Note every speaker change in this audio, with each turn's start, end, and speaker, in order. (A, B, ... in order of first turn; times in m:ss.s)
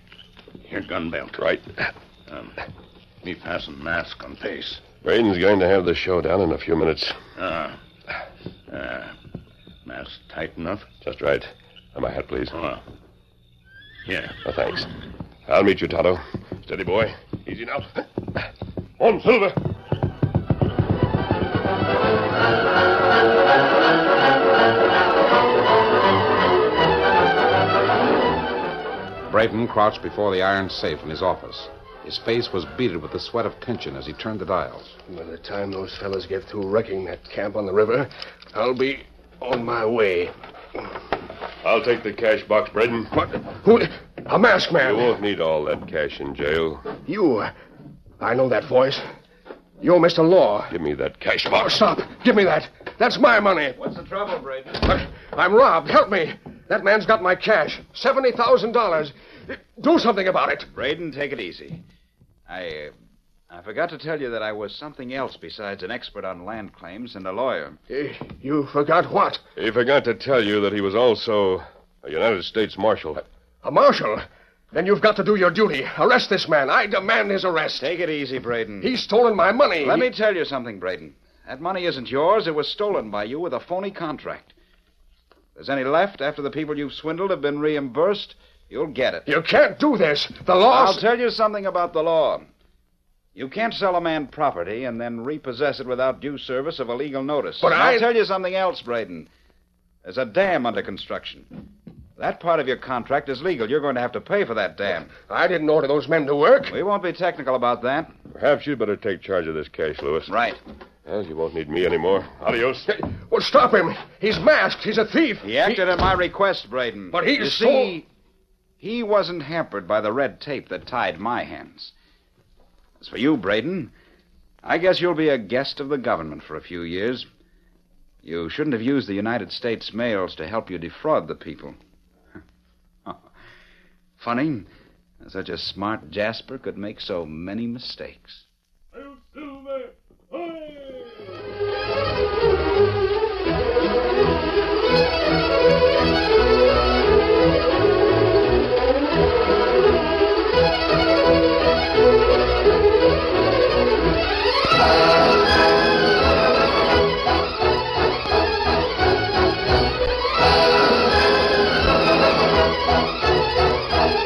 0:00.6-0:01.4 A
0:01.4-0:01.7 B
0:02.3-0:02.6 A
0:03.2-0:04.8 A
0:05.0-0:07.2 B
0:07.4-0:07.8 A
0:08.7-0:09.1 A
0:09.9-0:10.9 A
0:11.0-0:12.5 B
0:12.6-0:12.8 A
0:14.1-0:14.4 A
0:14.4-0:14.9 B
0:15.5-0:18.0 B
0:19.0-0:19.6 B
0:29.3-0:34.9 C
0:35.1-0:40.3 D
0:41.6-0:43.1 B
0:43.2-0:45.2 D
0:44.8-0:46.9 B
0:47.0-0:47.5 D
0:48.2-0:49.1 D
0:49.8-0:50.7 D
0:50.7-0:51.7 B
0:51.5-0:53.8 D
0:53.8-0:54.7 E
0:54.8-1:00.7 D
1:00.7-1:01.8 E
1:02.5-1:02.9 E
1:03.5-1:07.8 E
1:07.9-1:09.4 D
1:09.6-1:13.2 B
1:13.6-1:17.9 D
1:17.8-1:18.9 E
1:18.8-1:20.1 D
1:19.8-1:24.5 E
1:25.6-1:29.3 E
1:29.3-1:31.0 D
1:30.7-1:32.5 E
1:33.4-1:39.3 E
1:37.6-1:38.1 D
1:40.0-1:41.5 E
1:42.2-1:45.1 E
1:45.3-1:46.8 D
1:46.7-1:48.1 E
1:48.3-1:50.3 B
1:50.3-1:50.6 E
1:51.1-1:52.9 B
1:52.9-1:56.0 D
1:55.4-1:58.0 E
1:57.1-1:58.0 D
1:58.8-2:01.9 E
2:03.0-2:03.9 E
2:04.6-2:07.3 E
2:08.2-2:11.8 E
2:14.2-2:14.7 E
2:15.2-2:18.4 E